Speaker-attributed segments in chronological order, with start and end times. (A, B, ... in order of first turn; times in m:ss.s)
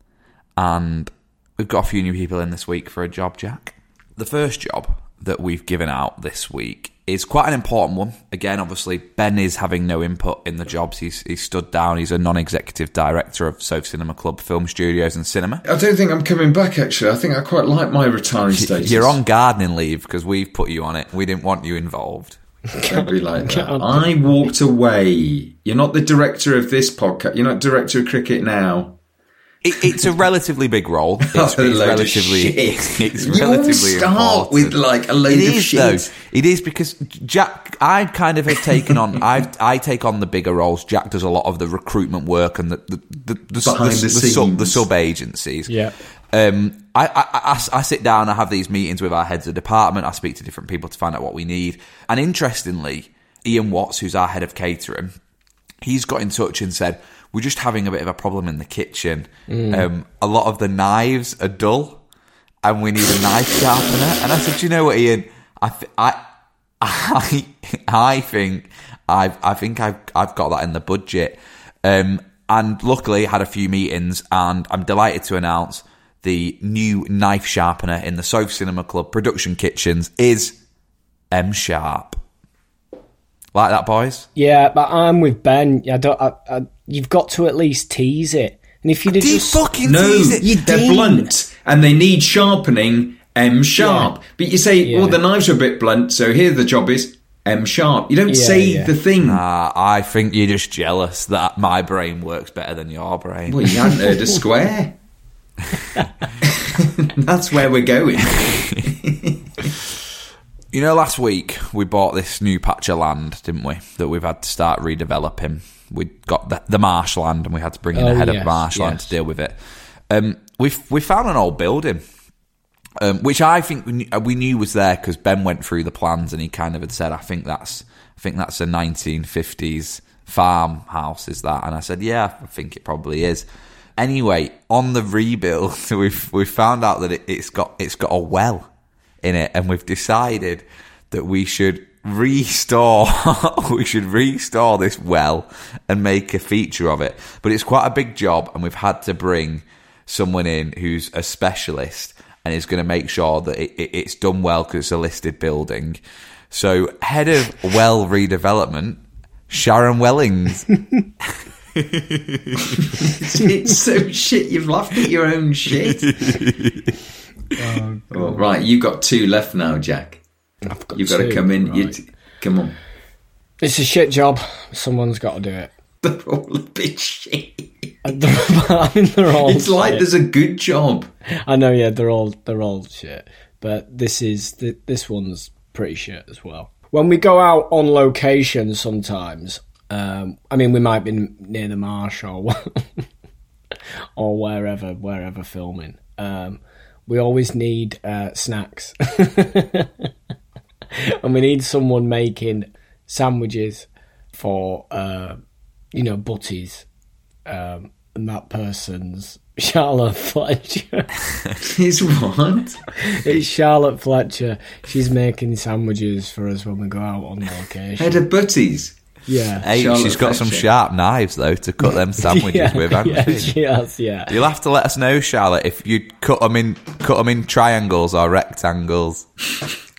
0:00.6-0:15.6 A
0:15.6-0:19.2 B
0:18.5-0:22.4 A
0:22.7-0:24.1 C
0:22.8-0:29.0 B
0:29.6-0:45.7 A
0:31.3-0:36.1 B
0:43.6-0:44.9 B
0:45.7-0:45.9 C
0:46.3-0:55.1 A
0:55.8-1:02.0 A
0:59.5-0:59.9 C
1:02.6-1:06.2 A
1:06.8-1:20.5 A
1:21.3-1:22.2 A
1:23.5-1:24.3 A
1:24.4-1:29.6 C
1:29.1-1:30.6 A
1:29.8-1:39.4 B
1:30.4-1:31.3 C
1:33.8-1:34.1 C
1:34.8-1:35.2 C
1:38.3-1:38.9 C
1:39.2-1:43.7 A
1:43.5-1:45.0 B
1:46.4-1:49.6 B
1:48.3-1:48.9 A
1:50.7-1:59.6 A
1:57.9-1:59.1 C
2:00.1-2:02.0 A
2:03.0-2:13.4 A
2:14.0-2:18.7 A
2:19.2-2:36.0 A
2:36.5-2:40.7 A
2:41.8-2:42.8 A
2:42.9-2:46.1 B
2:45.8-2:47.0 A
2:47.6-2:48.4 C
2:48.1-2:50.2 B
2:50.6-2:52.0 C
2:50.9-2:52.8 B
2:53.6-2:55.7 C
2:56.0-2:57.9 B
2:58.0-3:00.0 C
2:59.4-3:01.1 B
3:01.4-3:13.0 C
3:14.2-3:20.1 C
3:21.0-3:25.4 C
3:25.9-3:26.8 C
3:27.4-3:31.1 C
3:31.6-3:32.8 B
3:33.0-3:38.2 C
3:38.0-3:39.0 B
3:39.3-3:39.7 C
3:39.6-3:43.5 A
3:39.6-3:40.7 B
3:42.2-3:44.3 C
3:44.3-3:49.2 A